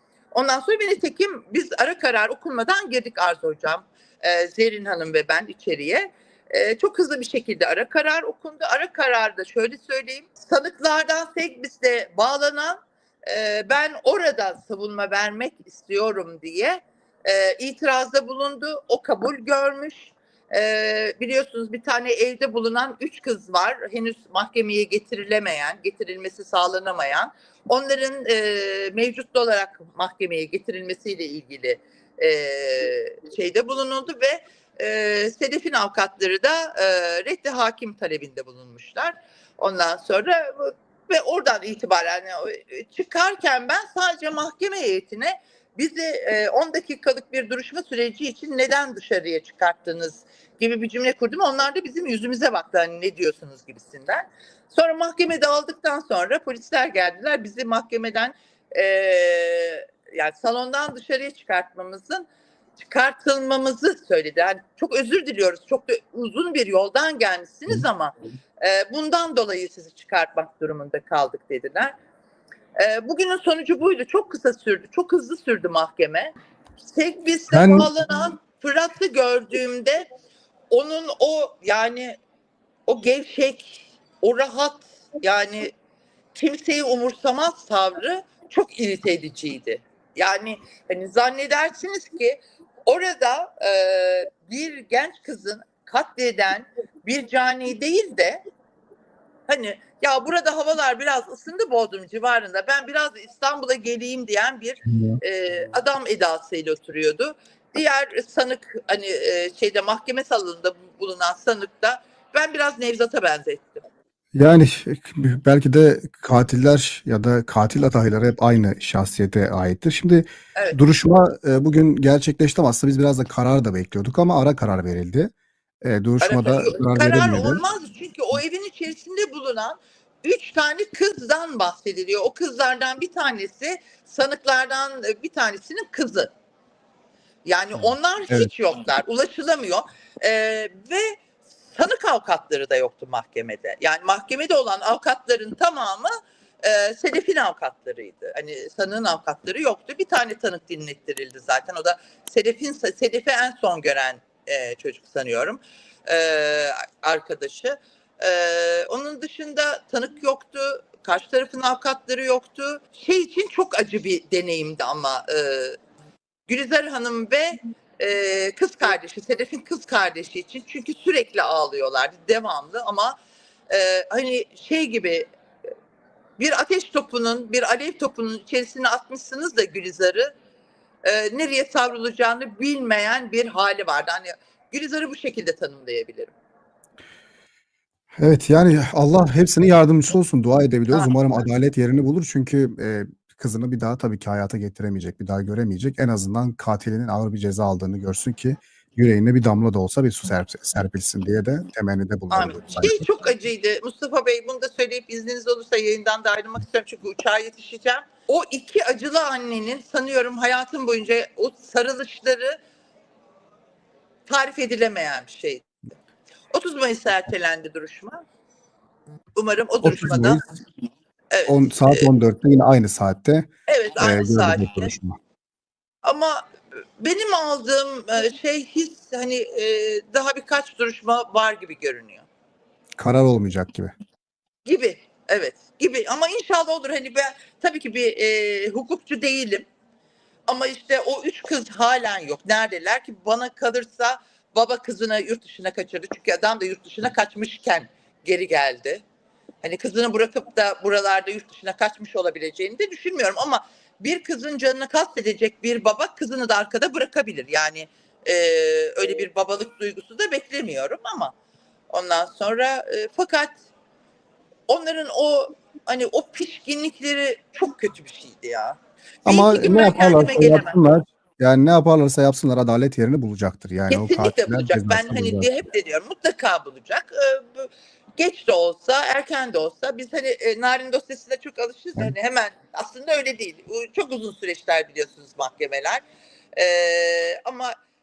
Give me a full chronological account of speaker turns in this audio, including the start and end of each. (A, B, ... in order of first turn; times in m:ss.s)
0:00.3-1:02.2 A
1:02.8-1:11.9 A
1:12.8-1:20.0 A
1:17.5-1:17.9 B
1:20.7-1:22.2 A
1:22.9-1:25.7 A
1:26.3-1:38.4 A
1:39.5-1:53.8 A
1:44.8-1:45.2 B
1:54.3-2:05.3 B
2:05.8-2:07.6 B
2:06.2-2:16.3 A
2:17.4-2:26.1 A
2:26.6-2:45.8 A
2:46.5-2:53.2 A
2:53.7-2:55.2 A
2:56.4-3:00.3 A
3:01.0-3:06.3 A
3:08.1-3:23.0 B
3:10.9-3:11.4 A
3:22.3-3:32.6 A
3:34.3-3:35.7 A
3:36.5-3:38.2 A
3:39.3-3:40.4 A
3:39.8-3:40.4 B
3:41.3-3:42.1 A
3:41.4-3:45.2 B
3:43.7-3:44.9 A
3:46.0-3:46.4 A
3:47.0-3:52.2 A
3:53.0-3:53.9 B
3:54.6-3:59.7 A
4:00.5-4:09.0 A
4:09.6-4:21.3 A
4:21.9-4:23.6 A
4:24.7-4:30.8 A
4:29.2-4:35.5 B
4:33.9-4:46.0 A
4:46.6-4:47.7 A